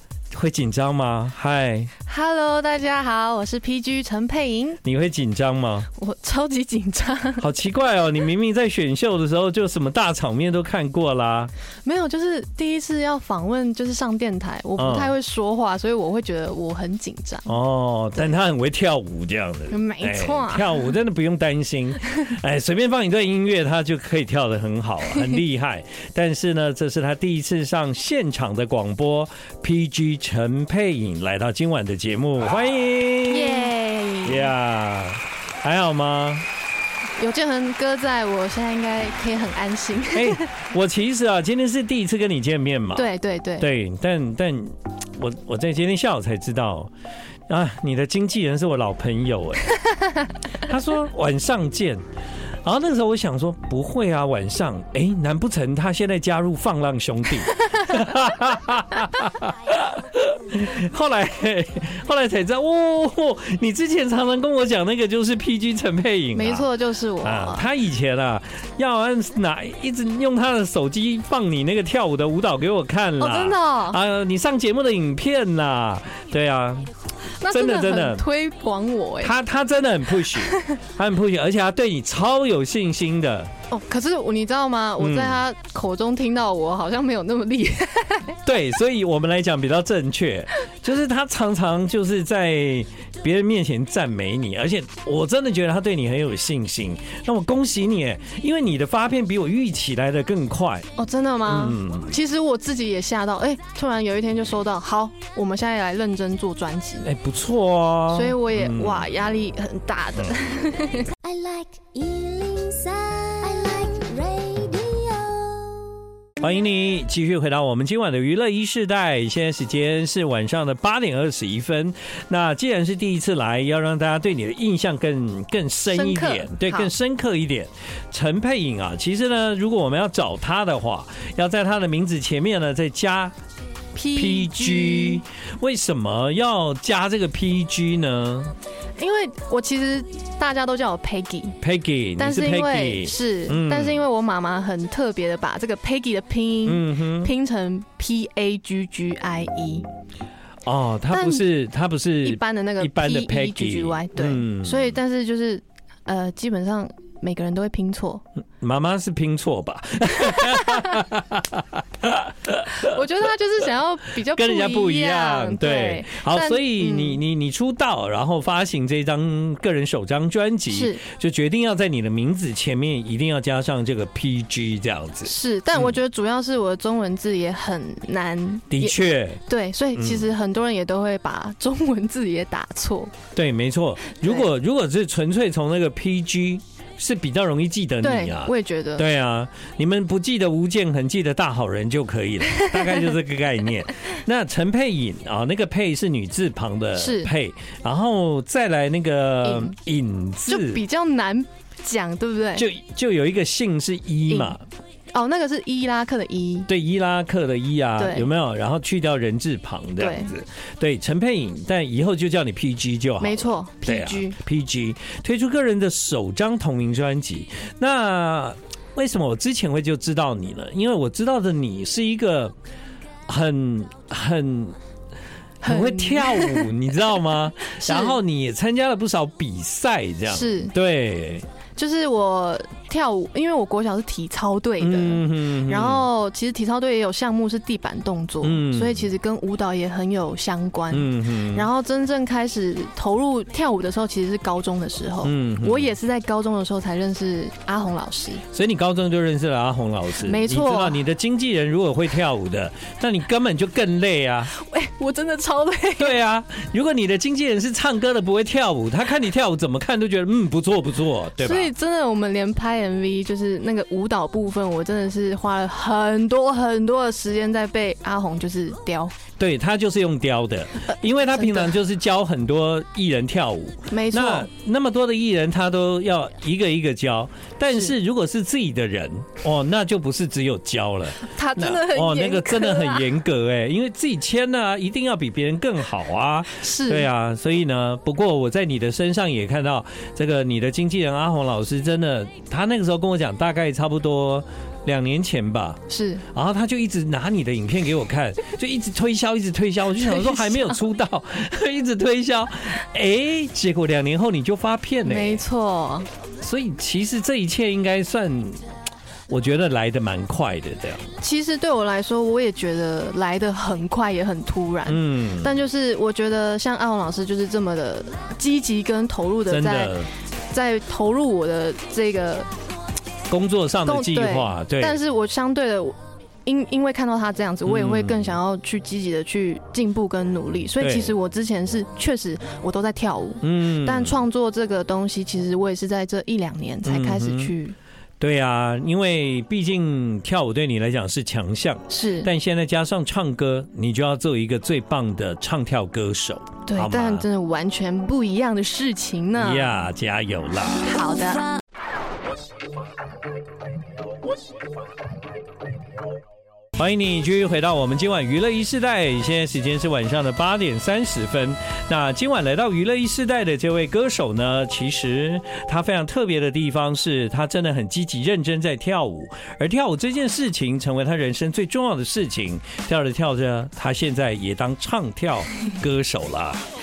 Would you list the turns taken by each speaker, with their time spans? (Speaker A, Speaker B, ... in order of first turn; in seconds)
Speaker A: 0.3-1.9, 4.8-5.9, 7.4-11.5, 14.8-15.1, 17.5-33.7, 34.2-36.5, 40.1-43.0, 43.6-46.9, 47.5-49.7, 50.6-52.0, 52.6-66.7, 67.2-76.9, 77.5-78.2, 79.2-83.5, 85.0-85.4, 88.4-100.9, 101.5-102.1, 107.0-109.0, 116.4-133.3, 134.1-138.5, 141.6-144.0, 146.7-147.3, 150.7-154.9, 158.6-162.9, 164.3-175.9, 178.7-179.4, 179.9-180.3, 183.3-200.8, 202.6-204.6, 206.7-222.5, 223.3-224.8, 225.6-231.4, 234.8-236.0, 238.4-239.1, 240.9-241.7, 245.2-245.9, 248.5-254.5, 256.0-261.7, 269.4-295.8, 296.3-305.4, 306.4-308.6, 309.3-311.1, 314.9-315.5, 319.5-320.1, 323.3-325.0, 327.6-328.3, 330.8-331.1, 333.4-334.2, 336.8-337.5, 338.2-347.2, 349.4-350.9, 356.8-376.6
Speaker B: 2.0-4.8, 6.0-7.4, 11.8-17.5, 19.7-20.9, 33.3-34.5, 37.2-40.4, 42.9-43.7, 66.3-67.7, 73.2-74.0, 77.4-79.3, 80.4-80.7, 83.7-88.4, 101.0-107.1, 108.1-111.7, 125.9-126.9, 133.9-135.2, 139.0-141.6, 142.2-149.9, 151.1-151.4, 152.2-158.2, 160.3-160.8, 162.7-167.2, 170.7-171.0, 175.2-183.1, 188.0-189.0, 192.5-193.1, 196.9-197.3, 199.4-199.7, 200.5-202.7, 204.3-204.6, 205.1-206.7, 208.0-208.3, 210.0-210.3, 213.2-214.4, 225.6-226.7, 227.8-228.2, 230.3-230.7, 231.8-248.4, 250.2-251.0, 254.5-256.2, 261.4-269.1, 271.4-271.7, 273.9-274.5, 281.2-283.1, 286.6-287.1, 295.9-296.2, 300.0-300.8, 305.0-306.1, 311.2-320.0, 320.5-322.5, 323.9-337.8, 341.9-342.3, 346.7-349.7, 350.8-351.5
Speaker C: 111.4-115.9